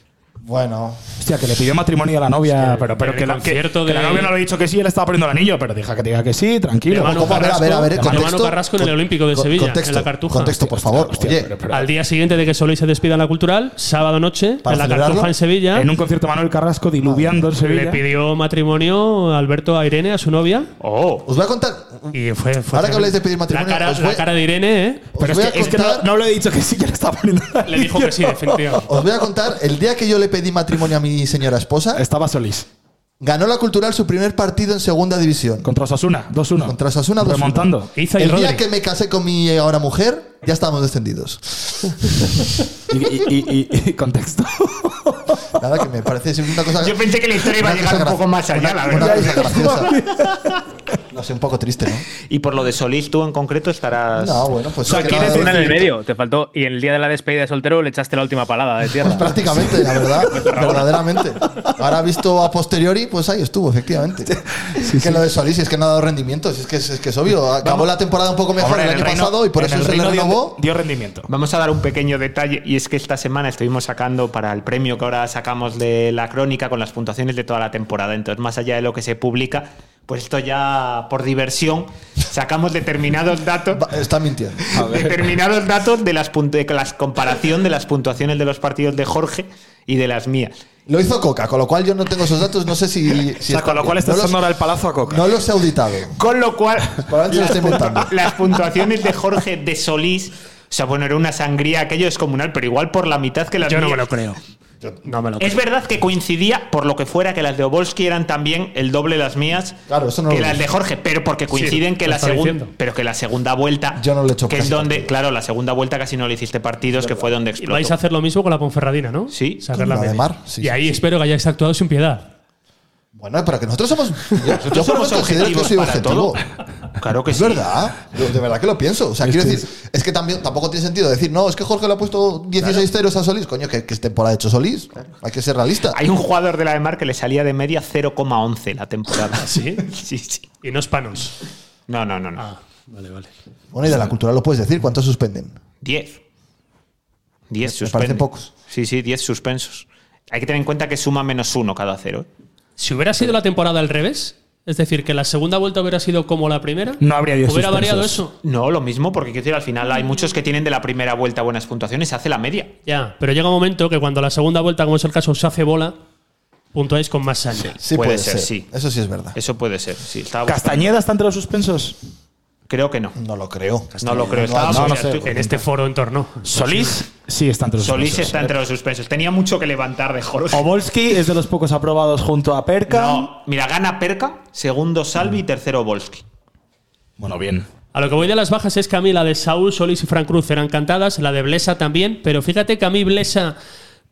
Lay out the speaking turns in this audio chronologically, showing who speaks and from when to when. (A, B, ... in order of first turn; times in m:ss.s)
0:00.4-0:01.0 A
0:01.2-0:08.3 B
0:03.0-0:04.3 C
0:06.9-0:10.7 C
0:06.9-0:11.5 A
0:10.6-0:11.9 B
0:11.7-0:15.9 C
0:14.6-0:15.3 A
0:15.7-0:18.0 B
0:17.0-0:17.4 A
0:17.6-0:20.7 C
0:20.8-0:21.3 D
0:21.2-0:22.2 A
0:22.1-0:25.1 C
0:22.7-0:24.3 A
0:25.2-0:26.1 A
0:25.2-0:28.8 B
0:27.6-0:28.9 C
0:28.9-0:32.0 A
0:32.0-0:32.7 B
0:33.2-0:35.7 A
0:35.6-0:37.9 B
0:36.6-0:42.3 A
0:38.0-0:38.6 C
0:42.9-0:45.5 B
0:45.6-0:50.0 A
0:46.8-0:49.7 D
0:49.6-0:49.9 B
0:51.1-0:52.1 A
0:52.3-0:54.5 D
0:54.2-0:55.8 A
0:54.9-0:55.8 B
0:54.9-0:59.6 E
0:59.0-1:10.6 A
1:00.4-1:00.8 E
1:04.3-1:05.2 B
1:08.6-1:11.3 B
1:11.3-1:23.8 D
1:23.7-1:24.7 A
1:24.7-1:25.2 B
1:24.7-1:30.5 D
1:30.9-1:34.5 A
1:33.5-1:35.3 B
1:35.1-1:36.2 A
1:36.2-1:44.1 D
1:37.1-1:38.1 A
1:43.7-1:44.4 C
1:45.0-1:45.6 C
1:45.4-1:58.0 D
1:49.9-1:50.7 A
1:51.5-1:52.7 C
1:54.0-1:55.1 A
1:57.0-1:57.3 A
1:57.6-2:02.3 C
1:59.3-1:59.6 D
1:59.7-2:00.8 A
2:03.2-2:06.4 A
2:04.5-2:06.4 D
2:07.0-2:07.7 D
2:07.3-2:16.0 A
2:09.2-2:09.6 B
2:15.9-2:20.5 D
2:19.4-2:19.8 C
2:20.6-2:21.4 C
2:21.9-2:22.4 D
2:22.4-2:23.3 C
2:23.7-2:25.6 A
2:25.8-2:26.2 D
2:27.5-2:32.3 D
2:27.6-2:28.5 A
2:32.8-2:38.3 C
2:37.0-2:38.2 B
2:38.4-2:42.7 D
2:42.9-2:46.0 C
2:46.7-2:47.8 C
2:47.8-2:49.4 A
2:47.9-2:48.7 D
2:49.3-2:50.9 D
2:50.5-2:52.0 B
2:52.7-2:53.2 D
2:53.2-2:55.1 A
2:54.0-2:55.6 D
2:54.7-2:55.4 B
2:55.2-2:57.0 C
2:56.4-2:58.5 B
2:57.8-3:00.7 D
3:00.5-3:03.3 B
3:02.9-3:06.2 D
3:07.2-3:07.7 B
3:07.9-3:13.6 C